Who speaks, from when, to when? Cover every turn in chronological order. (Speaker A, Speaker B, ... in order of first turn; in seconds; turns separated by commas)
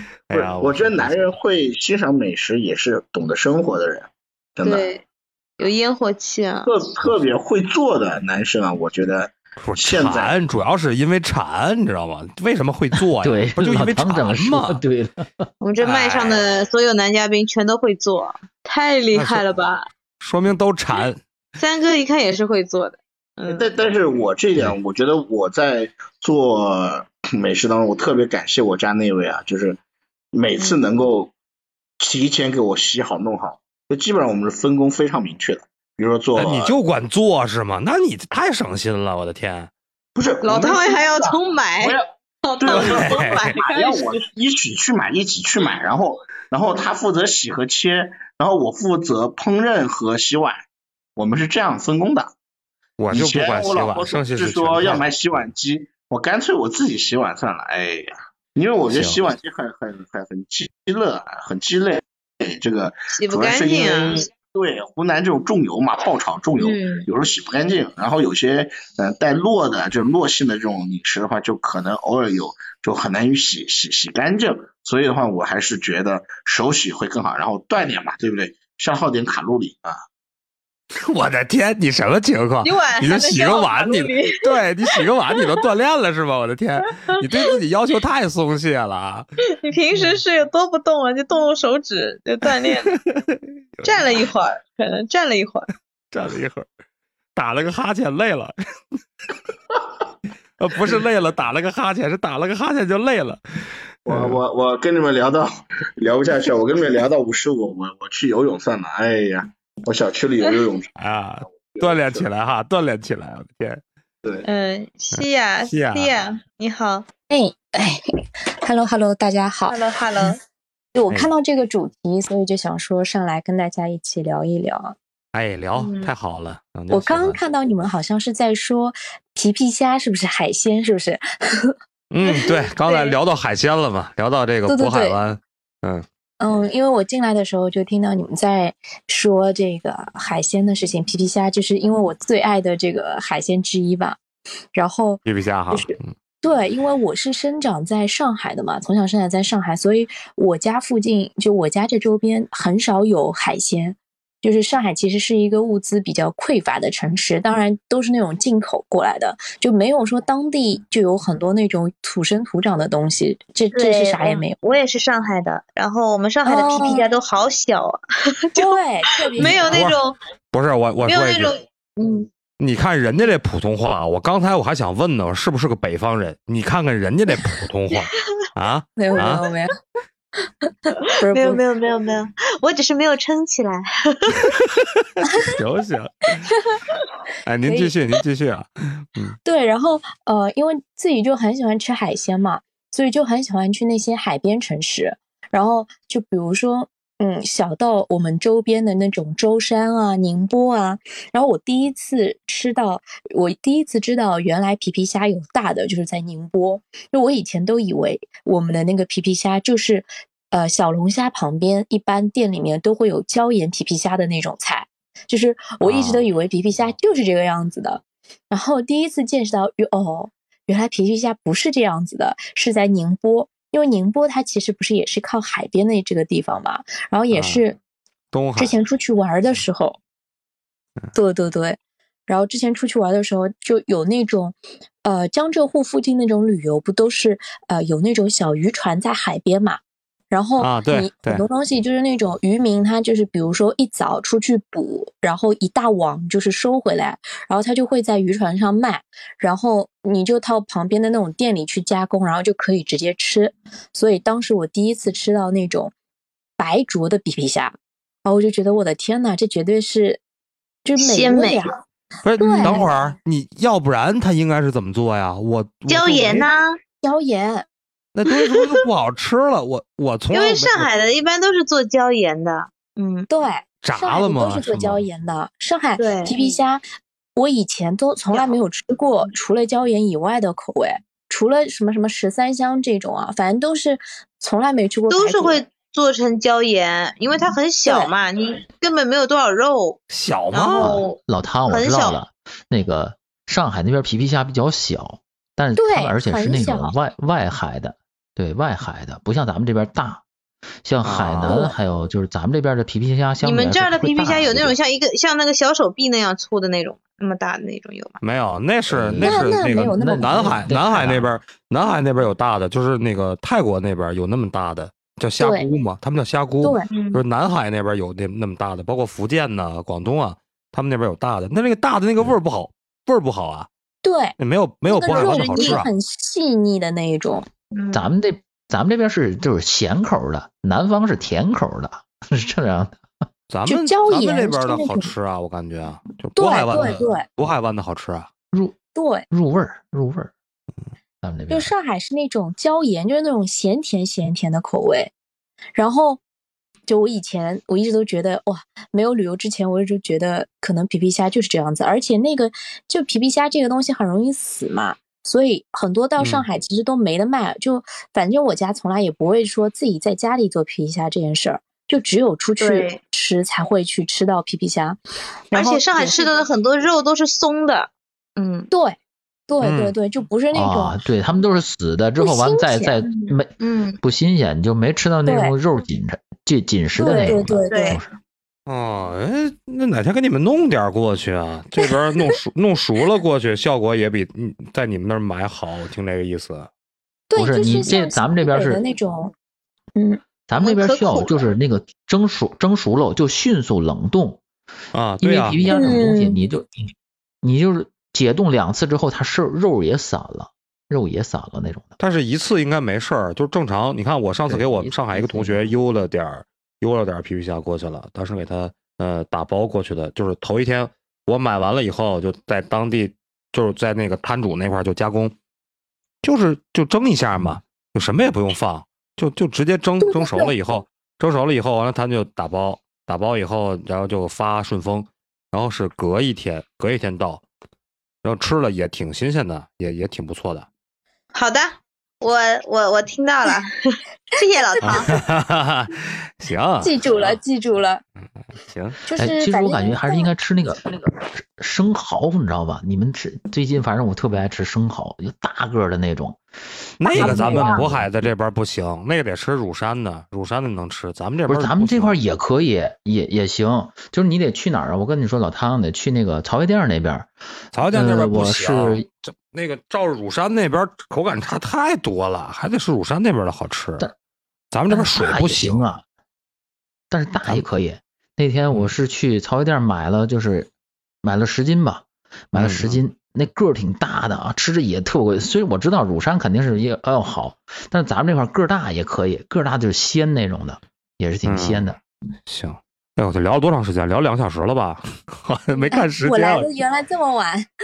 Speaker A: 0.3-1.3, Speaker B: 0.3-5.0, Speaker C: 4.6-5.0, Speaker C: 5.6-6.7, Speaker B: 6.7-10.3, Speaker A: 9.6-14.8, Speaker D: 13.0-15.5, Speaker C: 15.6-19.8, Speaker A: 15.8-16.5, Speaker A: 19.1-19.4, Speaker A: 20.2-21.2, Speaker C: 21.6-23.6, Speaker B: 23.5-29.8, Speaker B: 30.3-31.3, Speaker B: 32.0-36.7, Speaker A: 36.4-39.7, Speaker B: 40.1-42.0, Speaker C: 40.4-44.2, Speaker B: 42.6-50.6, Speaker A: 42.7-43.5, Speaker B: 51.1-52.3, Speaker A: 53.0-55.5, Speaker B: 53.1-80.0, Speaker A: 58.9-59.3, Speaker C: 63.1-64.2, Speaker C: 66.6-67.1, Speaker A: 81.0-89.2, Speaker C: 82.6-84.4, Speaker C: 89.6-93.0, Speaker A: 92.9-94.0, Speaker C: 93.8-95.7, Speaker A: 96.1-96.7, Speaker A: 97.3-98.5, Speaker A: 100.6-103.4, Speaker B: 104.0-110.9, Speaker A: 104.1-104.4, Speaker A: 111.0-113.8, Speaker B: 111.5-112.3, Speaker C: 114.4-117.0, Speaker A: 115.1-116.2, Speaker E: 117.3-118.0, Speaker E: 118.6-119.9, Speaker C: 119.7-120.4, Speaker E: 120.9-125.0, Speaker A: 125.3-127.4, Speaker C: 125.8-126.1, Speaker E: 126.9-131.7, Speaker A: 132.1-136.0, Speaker C: 132.8-133.1, Speaker E: 134.7-135.2, Speaker E: 136.4-144.2, Speaker E: 144.7-164.6, Speaker A: 145.2-146.1, Speaker C: 163.7-168.7, Speaker E: 166.4-167.1, Speaker E: 168.6-169.9, Speaker C: 169.3-170.2, Speaker A: 169.4-170.0, Speaker A: 170.5-171.6, Speaker C: 171.1-172.3, Speaker A: 172.6-179.4, Speaker E: 179.0-179.7, Speaker E: 180.9-181.6, Speaker C: 181.2-184.4, Speaker A: 184.8-186.5, Speaker A: 187.4-189.3, Speaker E: 187.7-187.9, Speaker E: 189.4-227.8, Speaker A: 215.8-216.3, Speaker A: 227.3-227.6, Speaker A: 228.3-228.8, Speaker E: 228.6-230.0, Speaker E: 231.1-255.9, Speaker A: 240.6-241.4, Speaker E: 256.6-260.2, Speaker E: 260.8-261.8, Speaker C: 261.0-261.7, Speaker A: 262.2-266.5, Speaker E: 262.4-262.9, Speaker C: 265.9-266.8, Speaker E: 267.0-267.6, Speaker A: 268.1-270.9, Speaker C: 270.3-273.3, Speaker E: 273.3-276.8, Speaker A: 273.8-275.1, Speaker C: 276.0-276.4, Speaker E: 277.4-285.6, Speaker C: 285.1-292.2, Speaker E: 287.8-288.1, Speaker A: 290.1-291.0, Speaker D: 290.8-300.2, Speaker E: 295.8-296.9, Speaker D: 300.9-304.7, Speaker A: 301.0-301.7, Speaker C: 303.4-308.2, Speaker A: 308.2-323.7, Speaker D: 308.9-311.3, Speaker E: 309.2-310.7, Speaker E: 315.4-315.7, Speaker E: 316.6-316.9, Speaker C: 316.9-317.2, Speaker E: 324.0-327.4, Speaker A: 324.4-325.9, Speaker C: 325.1-325.8, Speaker C: 327.7-328.1, Speaker D: 327.9-333.0, Speaker A: 333.5-338.3, Speaker E: 333.6-335.1, Speaker E: 336.4-337.2, Speaker D: 338.5-338.8, Speaker E: 338.9-339.3, Speaker D: 339.3-340.3, Speaker D: 341.2-341.7, Speaker E: 341.5-345.1, Speaker E: 345.7-346.2, Speaker E: 346.9-365.0, Speaker A: 356.2-356.4, Speaker C: 362.6-363.0, Speaker E: 365.5-366.4, Speaker C: 365.5-368.7, Speaker E: 368.7-369.0, Speaker E: 369.5-371.0, Speaker A: 369.6-369.9, Speaker D: 370.5-378.1, Speaker E: 372.2-373.1, Speaker C: 373.1-374.0, Speaker E: 375.2-375.6, Speaker E: 377.0-378.0, Speaker C: 377.1-378.0, Speaker A: 378.7-386.7, Speaker E: 387.3-389.3, Speaker D: 387.3-388.8, Speaker E: 389.9-390.2, Speaker D: 390.5-394.4, Speaker C: 390.6-391.5, Speaker A: 394.9-395.7, Speaker D: 395.2-401.9, Speaker E: 395.6-396.4, Speaker A: 402.0-415.4, Speaker D: 404.5-405.7, Speaker A: 416.2-427.4, Speaker E: 420.0-420.5, Speaker A: 428.2-430.7, Speaker C: 431.3-435.1, Speaker E: 434.3-435.1, Speaker A: 434.8-437.4, Speaker E: 436.8-438.0, Speaker A: 438.7-439.0, Speaker E: 439.1-440.3, Speaker D: 439.1-446.4, Speaker A: 447.0-452.2, Speaker D: 447.1-448.1, Speaker E: 447.1-447.9, Speaker D: 451.5-457.3, Speaker A: 457.7-464.1, Speaker D: 457.9-459.1, Speaker A: 464.7-465.8, Speaker D: 464.9-466.0, Speaker D: 467.1-470.7, Speaker A: 467.4-467.7, Speaker D: 471.2-482.0, Speaker A: 472.5-473.0, Speaker A: 481.4-481.9, Speaker A: 482.5-486.7, Speaker E: 485.7-487.7